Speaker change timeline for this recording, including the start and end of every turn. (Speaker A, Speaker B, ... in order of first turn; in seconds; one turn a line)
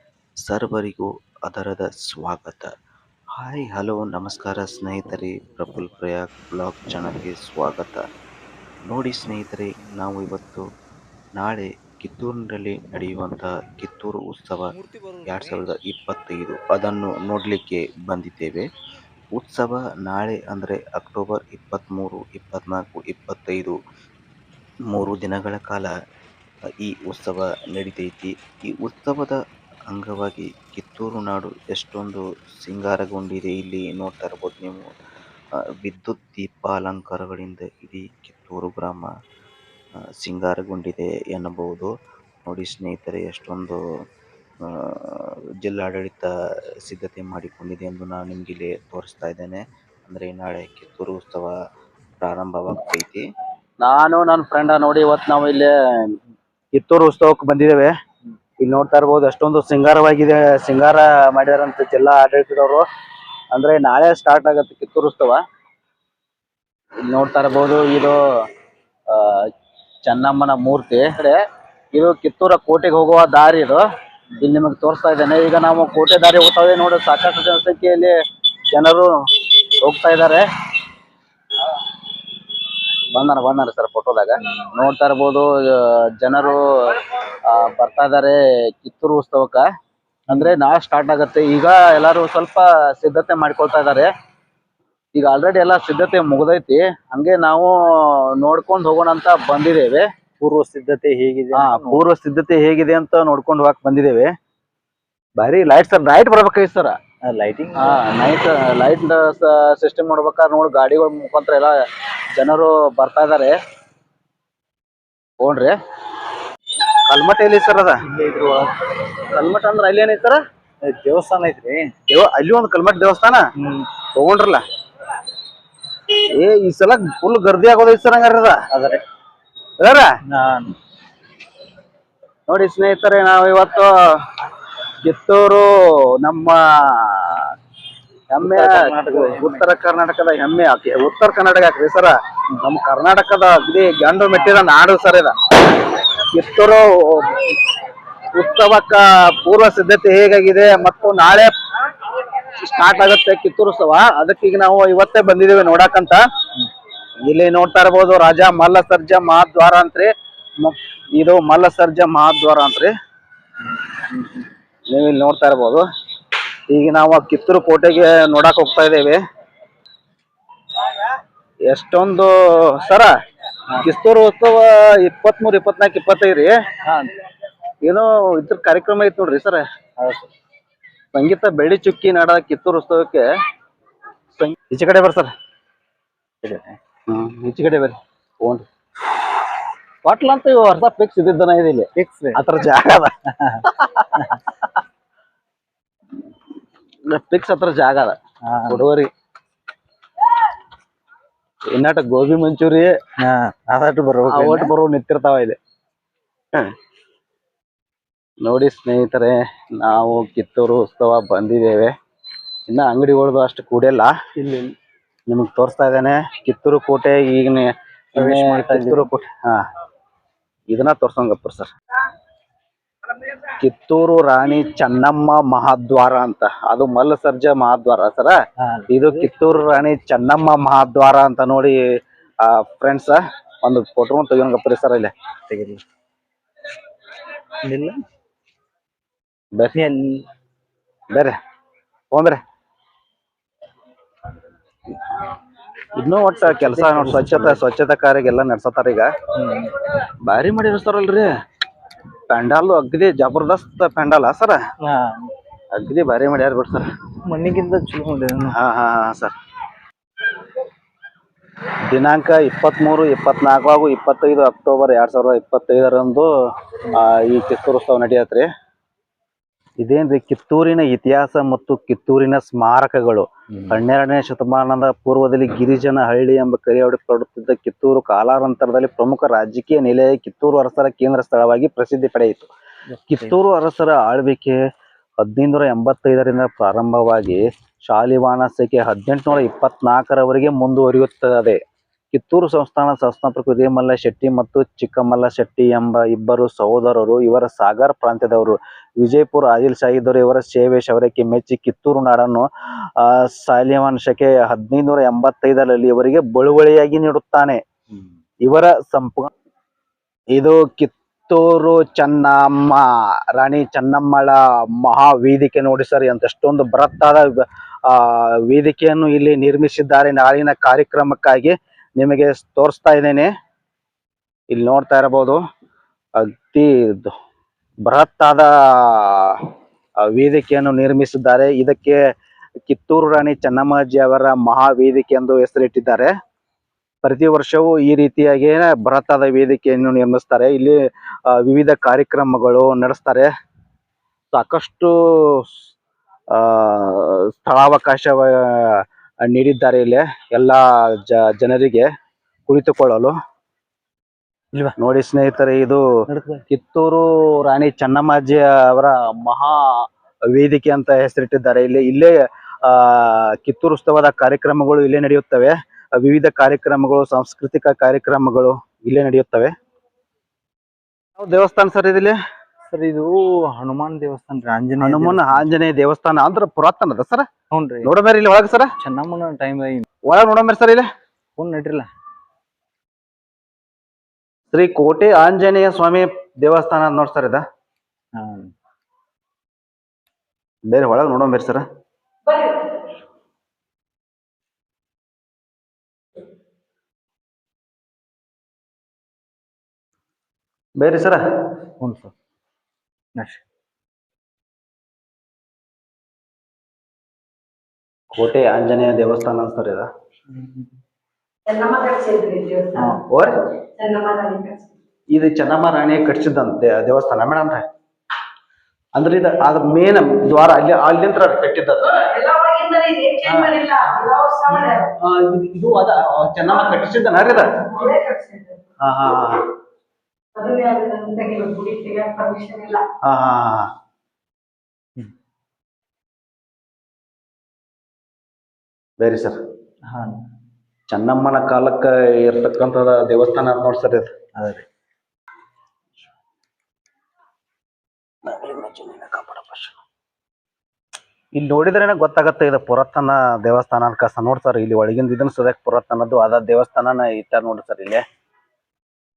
Speaker A: 0.5-2.7
Speaker A: 3.4-8.0
Speaker A: 8.8-10.7
Speaker A: 11.4-18.7
Speaker A: 19.4-23.8
Speaker A: 24.9-25.9
Speaker A: 26.8-29.4
Speaker A: 29.9-34.9
Speaker A: 35.8-39.1
Speaker A: 40.2-41.9
Speaker A: 42.5-43.8
Speaker A: 44.7-46.3
Speaker A: 46.9-51.5
Speaker A: 52.2-53.2
Speaker B: 53.8-56.1
Speaker B: 56.7-57.9
Speaker B: 58.6-62.9
Speaker B: 63.5-65.4
Speaker B: 67.1-68.2
Speaker B: 69.1-69.5
Speaker B: 70.1-71.4
Speaker B: 71.9-73.8
Speaker B: 74.4-78.2
Speaker B: 78.7-79.2
Speaker B: 79.8-80.5
Speaker B: 83.1-89.7
Speaker C: 90.3-90.6
Speaker B: 90.3-94.1
Speaker B: 95.2-100.1
Speaker C: 100.4-102.1
Speaker B: 101.5-104.3
Speaker B: 105.4-107.0
Speaker C: 107.3-108.0
Speaker B: 107.8-111.8
Speaker B: 112.4-113.6
Speaker B: 115.4-115.8
Speaker B: 117.1-118.0
Speaker C: 118.1-118.8
Speaker B: 119.3-120.4
Speaker C: 120.8-121.9
Speaker B: 122.1-123.4
Speaker C: 123.6-123.9
Speaker B: 124.2-124.6
Speaker B: 126.3-128.6
Speaker C: 128.7-129.0
Speaker B: 129.8-130.2
Speaker C: 130.3-130.8
Speaker B: 132.5-134.3
Speaker B: 135.0-137.5
Speaker B: 138.3-145.3
Speaker C: 138.4-139.7
Speaker B: 145.9-147.5
Speaker B: 148.3-151.5
Speaker B: 152.3-156.2
Speaker B: 157.3-160.1
Speaker B: 160.6-162.9
Speaker B: 164.9-165.8
Speaker B: 166.7-169.2
Speaker B: 171.7-173.1
Speaker B: 173.8-176.5
Speaker B: 177.8-179.6
Speaker C: 180.0-180.3
Speaker B: 181.1-183.2
Speaker B: 184.4-185.3
Speaker C: 186.4-186.8
Speaker B: 187.1-188.7
Speaker B: 190.1-194.1
Speaker C: 192.0-192.4
Speaker C: 193.3-193.6
Speaker C: 194.1-194.4
Speaker B: 197.1-198.2
Speaker C: 198.5-198.8
Speaker B: 198.7-199.1
Speaker B: 201.8-202.9
Speaker C: 203.2-204.7
Speaker B: 204.3-205.6
Speaker B: 208.4-211.9
Speaker B: 212.7-214.1
Speaker C: 214.4-214.7
Speaker B: 215.3-219.6
Speaker C: 218.2-219.1
Speaker B: 220.7-221.7
Speaker B: 223.5-228.4
Speaker C: 228.6-229.5
Speaker B: 228.9-231.8
Speaker B: 232.4-235.1
Speaker C: 235.5-235.8
Speaker C: 237.6-238.0
Speaker C: 239.7-240.3
Speaker B: 242.1-242.4
Speaker B: 245.9-249.1
Speaker C: 246.4-247.6
Speaker C: 249.3-249.7
Speaker B: 250.3-251.3
Speaker B: 252.3-254.6
Speaker C: 254.8-255.3
Speaker B: 255.8-256.9
Speaker C: 257.3-258.6
Speaker B: 258.5-259.3
Speaker B: 261.9-266.3
Speaker B: 266.9-268.5
Speaker B: 269.8-282.5
Speaker C: 282.9-283.3
Speaker B: 283.1-284.6
Speaker B: 285.2-291.6
Speaker B: 292.1-307.6
Speaker B: 308.4-309.3
Speaker B: 310.4-312.9
Speaker B: 313.4-323.3
Speaker B: 324.5-325.4
Speaker B: 326.2-327.1
Speaker B: 327.9-329.5
Speaker B: 330.0-332.0
Speaker B: 332.7-336.1
Speaker B: 337.0-340.8
Speaker B: 341.3-343.3
Speaker B: 344.3-345.5
Speaker B: 346.3-351.9
Speaker B: 352.5-353.1
Speaker B: 354.8-355.8
Speaker C: 356.1-356.4
Speaker B: 356.5-369.5
Speaker B: 371.2-372.2
Speaker C: 372.7-375.5
Speaker B: 374.8-377.3
Speaker C: 377.5-377.9
Speaker B: 377.8-378.7
Speaker C: 378.8-379.9
Speaker B: 380.1-380.9
Speaker C: 381.4-381.9
Speaker B: 384.5-387.4
Speaker C: 388.2-388.5
Speaker B: 390.7-391.6
Speaker D: 392.3-392.7
Speaker B: 400.8-401.2
Speaker C: 401.8-402.1
Speaker C: 403.2-403.4
Speaker B: 408.1-409.9
Speaker C: 410.3-410.7
Speaker D: 411.5-412.9
Speaker C: 412.8-413.0
Speaker B: 413.1-413.5
Speaker D: 413.7-414.7
Speaker B: 415.1-417.6
Speaker B: 418.9-422.1
Speaker D: 422.1-424.9
Speaker B: 423.3-423.6
Speaker B: 425.0-427.6
Speaker D: 427.7-428.6
Speaker B: 428.8-429.5
Speaker D: 430.4-432.9
Speaker B: 433.1-433.7
Speaker B: 439.0-439.4
Speaker C: 439.9-440.2
Speaker B: 440.9-444.1
Speaker C: 444.4-444.7
Speaker B: 448.2-449.8
Speaker B: 451.4-458.0